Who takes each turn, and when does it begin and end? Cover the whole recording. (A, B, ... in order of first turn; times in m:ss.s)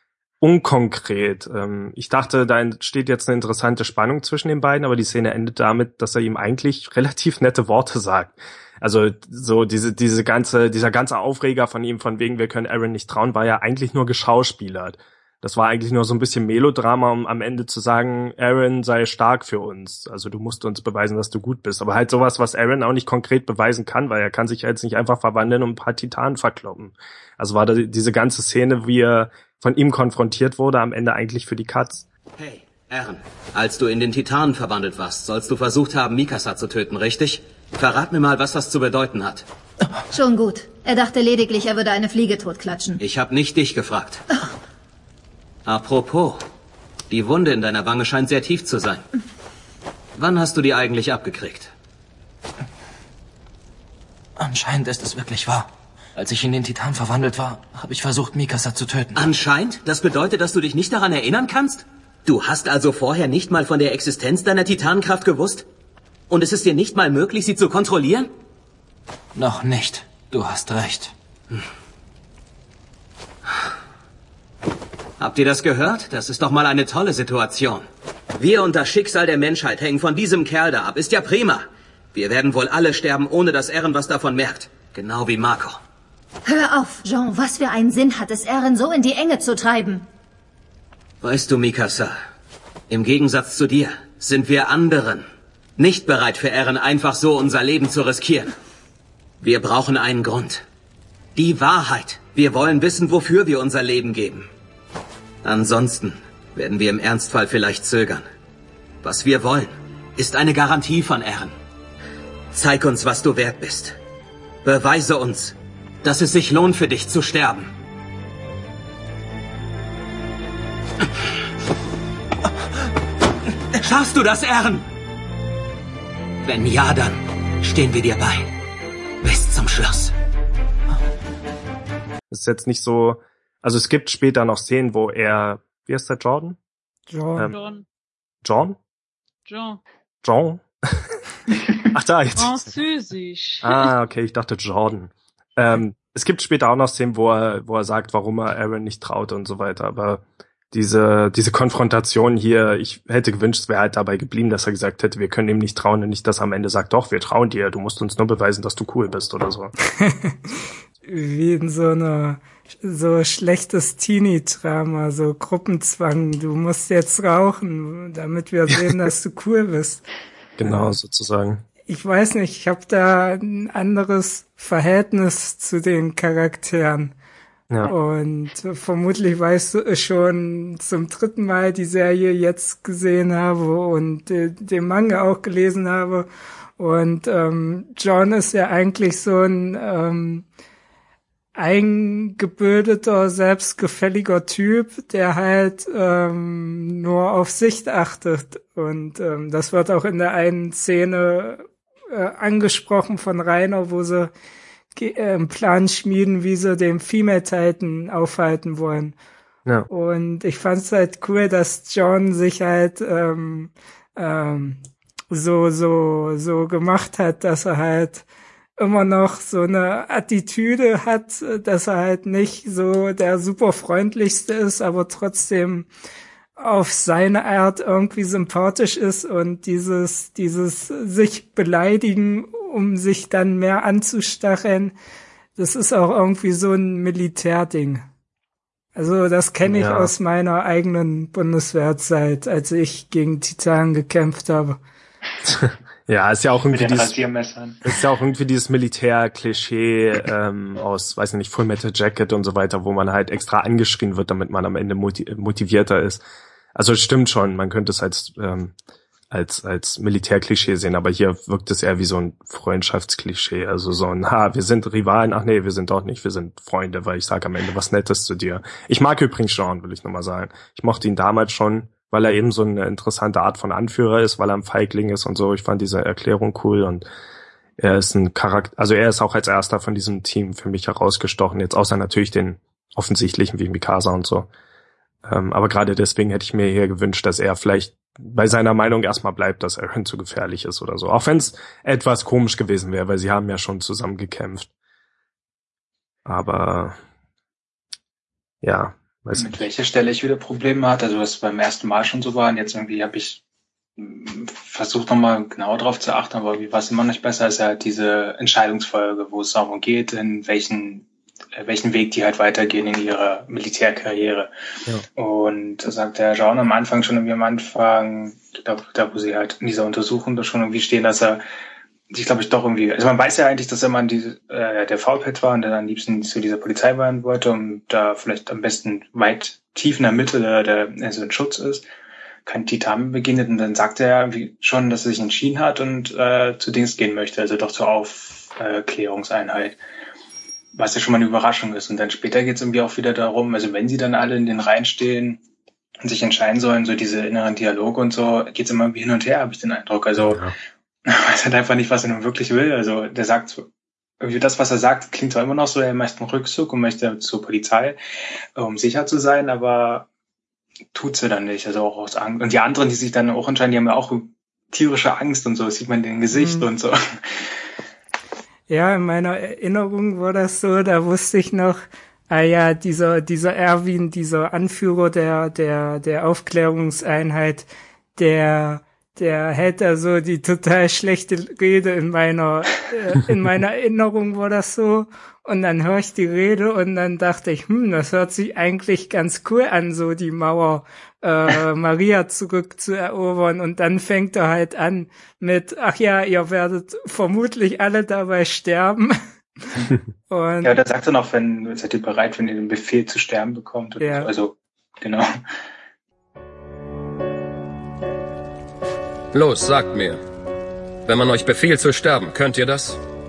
0:00.4-0:32.0 A
0:32.4-0:39.4 B
0:40.1-0:43.0 C
0:43.0-0:44.2 B
0:45.6-0:46.4 B
0:47.1-0:49.0 B
0:50.2-0:51.7 B
0:54.4-0:59.2 D
0:59.1-1:05.6 B
1:06.3-1:08.3 B
1:09.3-1:11.1 D
1:15.2-1:17.8 B
1:18.4-1:25.8 B
1:26.4-1:30.0 C
1:31.2-1:32.1 B
1:32.9-1:35.2 B
1:35.8-1:38.5 B
1:39.4-1:40.6 B
1:41.3-1:44.5 B
1:45.4-1:48.2 B
1:49.0-1:51.5 B
1:52.5-1:54.0 B
1:54.6-1:57.7 B
2:03.8-2:04.8 B
2:06.4-2:08.5 B
2:09.2-2:10.1 B
2:12.3-2:16.6 A
2:17.1-2:17.5 E
2:17.5-2:17.8 F
2:18.4-2:18.8 A
2:19.5-2:19.8 F
2:20.2-2:21.0 A
2:21.9-2:22.7 A
2:22.4-2:23.9 F
2:23.6-2:39.7 A
2:40.0-2:40.4 E
2:41.0-2:50.0 E
2:50.6-2:51.6 A
2:51.9-2:57.1 E
2:57.8-3:06.3 E
3:06.8-3:10.4 E
3:11.5-3:24.3 E
3:24.9-3:29.1 E
3:29.9-3:38.2 E
3:38.8-3:45.9 E
3:46.6-3:54.9 E
3:55.6-3:58.0 E
3:59.0-4:04.8 E
3:59.6-4:00.1 A
4:05.5-4:07.1 A
4:06.7-4:07.8 G
4:07.8-4:16.2 A
4:16.7-4:18.7 A
4:19.3-4:37.0 A
4:37.8-4:44.5 A
4:45.2-4:54.7 A
4:56.2-4:57.0 A
4:58.6-4:59.6 A
4:59.4-5:03.4 G
5:04.0-5:14.5 G
5:15.2-5:21.4 G
5:22.1-5:31.8 G
5:32.4-5:39.8 G
5:40.7-5:45.4 G
5:46.0-5:50.4 G
5:50.2-5:50.5 A
5:51.0-5:53.7 G
5:54.2-5:58.0 G
5:58.6-6:00.1 G
6:00.9-6:07.5 G
6:06.3-6:06.7 E
6:08.7-6:39.2 E
6:40.3-6:40.8 E
6:40.6-6:45.3 G
6:44.0-6:44.3 E
6:49.3-6:50.2 H
6:51.0-6:53.0 H